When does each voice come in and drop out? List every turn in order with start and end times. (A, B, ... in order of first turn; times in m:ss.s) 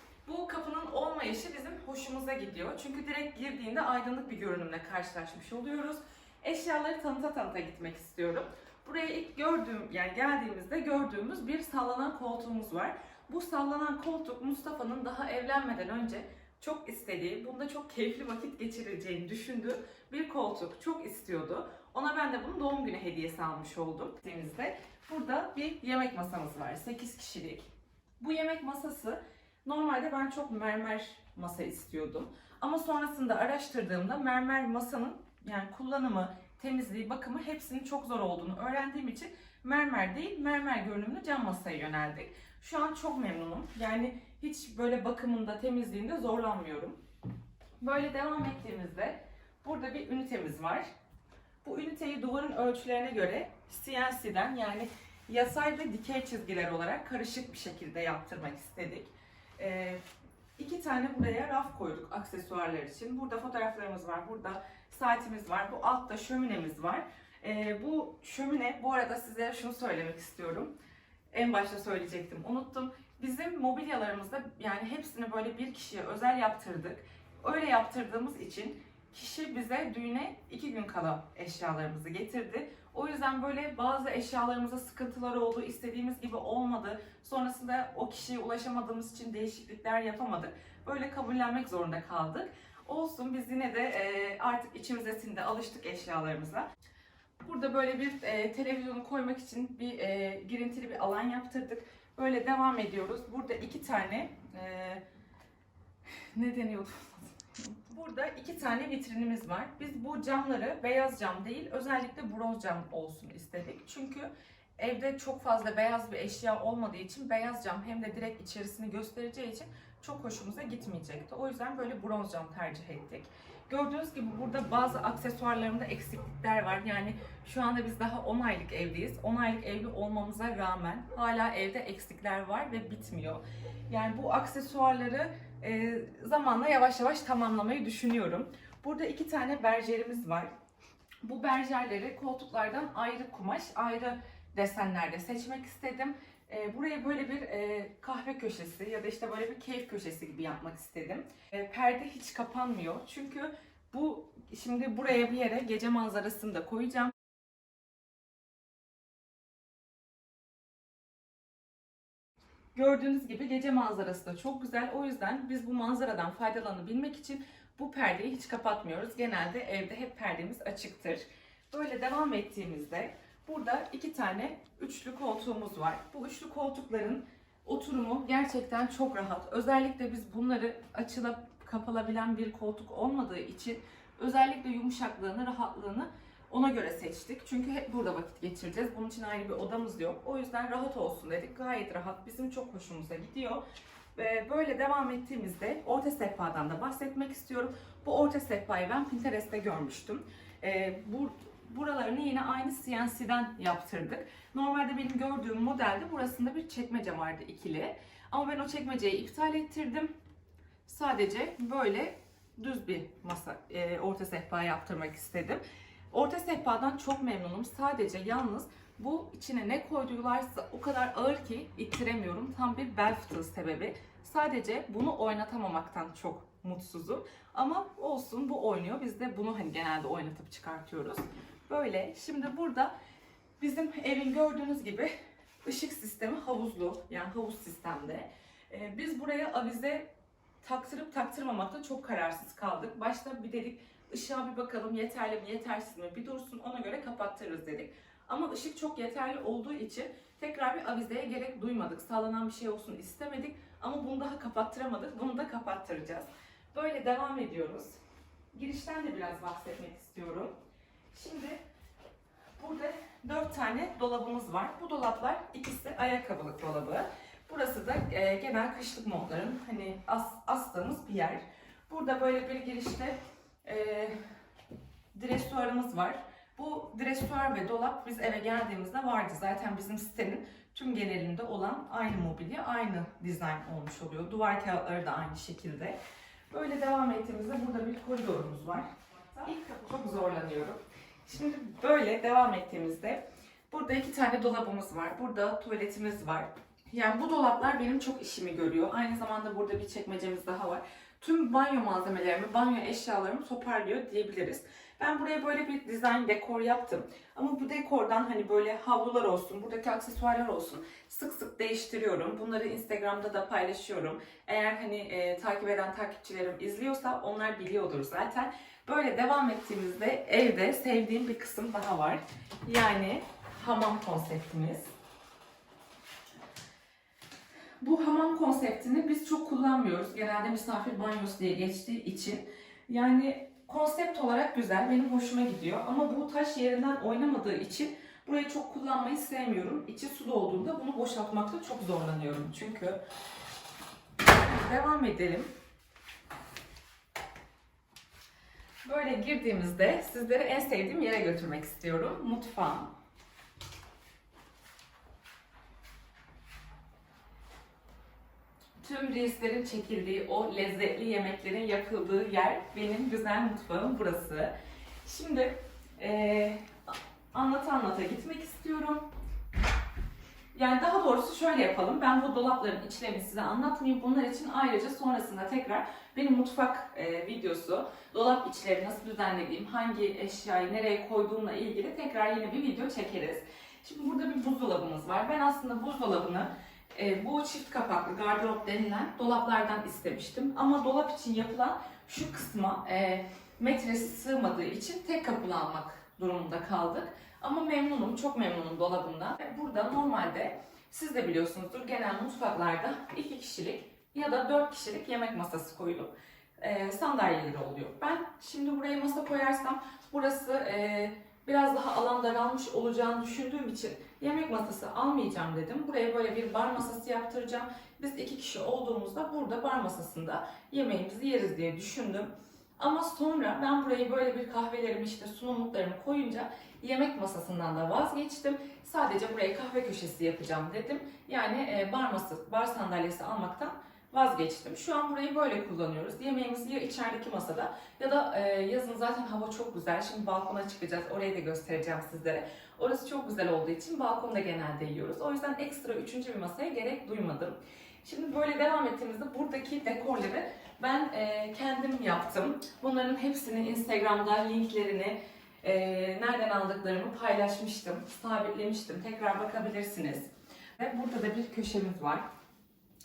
0:00.2-0:47.0 A
0:47.8-0:50.9 A
0:51.6-1:00.0 A
1:00.6-1:10.7 A
1:11.3-1:36.7 A
1:37.4-1:45.0 A
1:46.3-2:20.5 A
2:21.2-2:37.2 A
2:42.8-3:13.6 A
3:14.2-3:30.1 A
3:30.9-3:52.9 A
3:53.6-3:55.1 A
3:55.6-4:00.1 A
4:00.6-4:18.0 A
4:18.5-4:20.6 A
4:21.1-4:21.6 A
4:22.6-4:34.2 A
4:35.1-4:46.0 A
4:46.5-5:24.9 A
5:27.8-5:43.0 A
5:44.3-5:45.5 A
5:48.8-5:52.9 A
5:58.8-6:09.1 A
6:10.5-7:42.3 A